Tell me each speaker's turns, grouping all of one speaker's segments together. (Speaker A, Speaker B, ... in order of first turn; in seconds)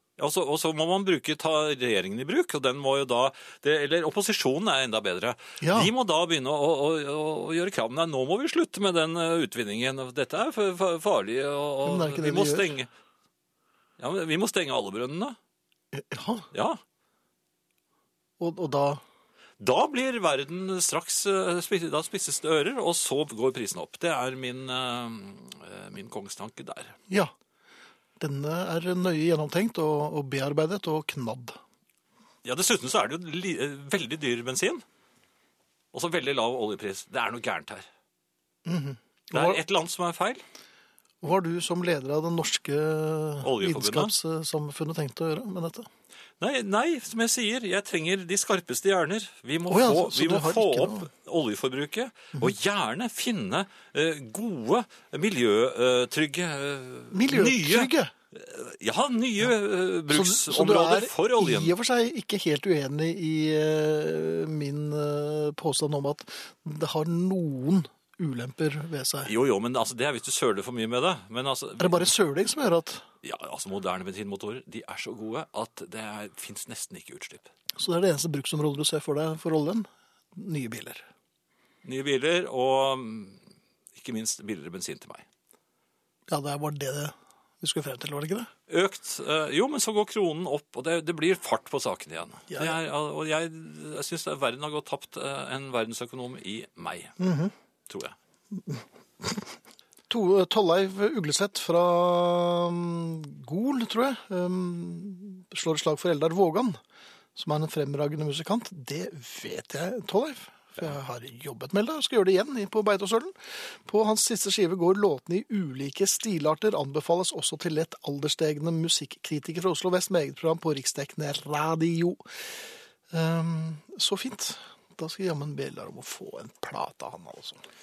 Speaker A: 0.2-12.9, 14.0-15.4, 16.5-16.8, 19.6-27.0, 32.4-34.8, 35.9-37.9, 39.3-40.4, 43.4-44.1, 46.4-61.8, 69.3-72.2, 73.2-77.5, 81.8-83.4, 83.9-85.3, 88.7-97.2, 97.9-98.2
Speaker B: 5.6-5.9, 11.8-12.8, 15.9-16.5, 18.4-19.0, 28.2-31.6, 38.7-39.6, 41.2-45.9, 49.7-51.1, 57.1-58.1, 60.1-69.3, 71.8-73.0, 77.8-81.1, 86.3-88.5, 92.5-92.8, 97.2-97.5, 98.5-99.5, 100.1-106.8, 107.3-127.6